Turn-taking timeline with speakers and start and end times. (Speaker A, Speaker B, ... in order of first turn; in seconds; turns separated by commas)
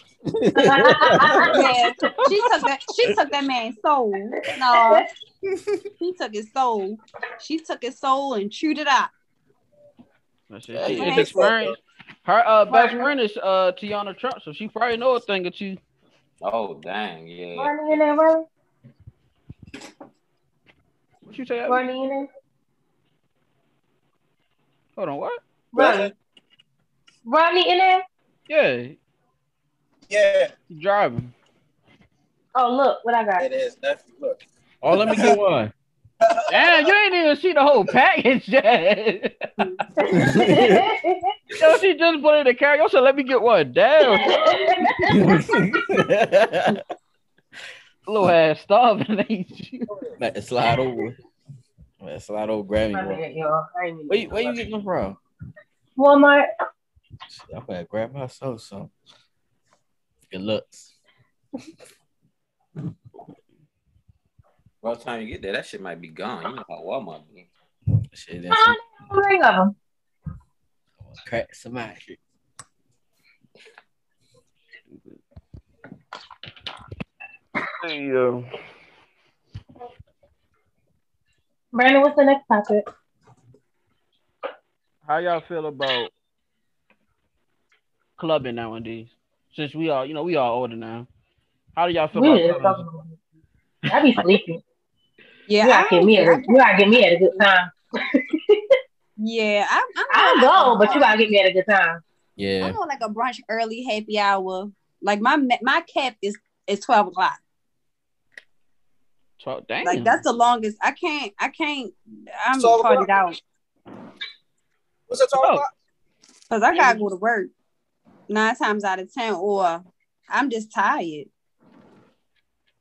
Speaker A: 0.4-1.6, Speaker B: 0.6-1.6, Speaker C: 1.5-5.0, Speaker B: 4.7-5.1, Speaker C: 6.0-9.1, Speaker D: 10.5-15.8, Speaker A: 10.7-11.4, Speaker E: 11.0-11.7, Speaker C: 11.0-11.4, Speaker B: 12.7-13.1, Speaker F: 16.4-18.0, Speaker B: 17.6-18.4, Speaker D: 21.3-21.8, Speaker B: 21.7-22.3, Speaker D: 24.9-25.4, Speaker B: 25.7-26.1, Speaker E: 25.7-26.1, Speaker B: 27.2-28.0, Speaker D: 28.5-29.0, Speaker E: 30.1-30.5, Speaker D: 30.7-31.3, Speaker B: 32.5-33.5, Speaker E: 33.4-34.4, Speaker A: 34.8-35.7, Speaker E: 34.9-35.4, Speaker E: 36.3-36.8, Speaker D: 36.5-39.5, Speaker B: 40.0-41.3, Speaker A: 40.1-40.8, Speaker D: 41.6-44.3, Speaker B: 44.0-45.4, Speaker A: 45.1-46.8, Speaker D: 48.1-49.9, Speaker A: 50.2-51.2, Speaker A: 52.0-53.2, Speaker B: 52.9-54.6, Speaker A: 54.1-55.2, Speaker B: 56.0-56.5, Speaker A: 57.3-58.9, Speaker A: 60.3-60.9, Speaker F: 64.8-67.5, Speaker A: 68.1-68.8, Speaker B: 68.5-69.7, Speaker A: 71.0-72.2, Speaker D: 74.9-75.2, Speaker D: 77.8-78.5, Speaker B: 81.7-82.9, Speaker D: 85.0-86.1, Speaker D: 88.2-91.1, Speaker D: 91.7-92.9, Speaker B: 92.1-93.2, Speaker B: 93.9-94.6, Speaker C: 95.5-97.4, Speaker B: 95.6-98.8, Speaker C: 99.2-101.2, Speaker B: 100.1-102.0, Speaker A: 102.4-102.8, Speaker C: 102.6-107.4, Speaker D: 109.4-110.2, Speaker C: 109.8-113.4, Speaker E: 112.5-113.2, Speaker E: 115.1-115.7, Speaker D: 115.4-115.6, Speaker C: 116.5-117.5, Speaker E: 116.7-117.0, Speaker C: 118.3-121.3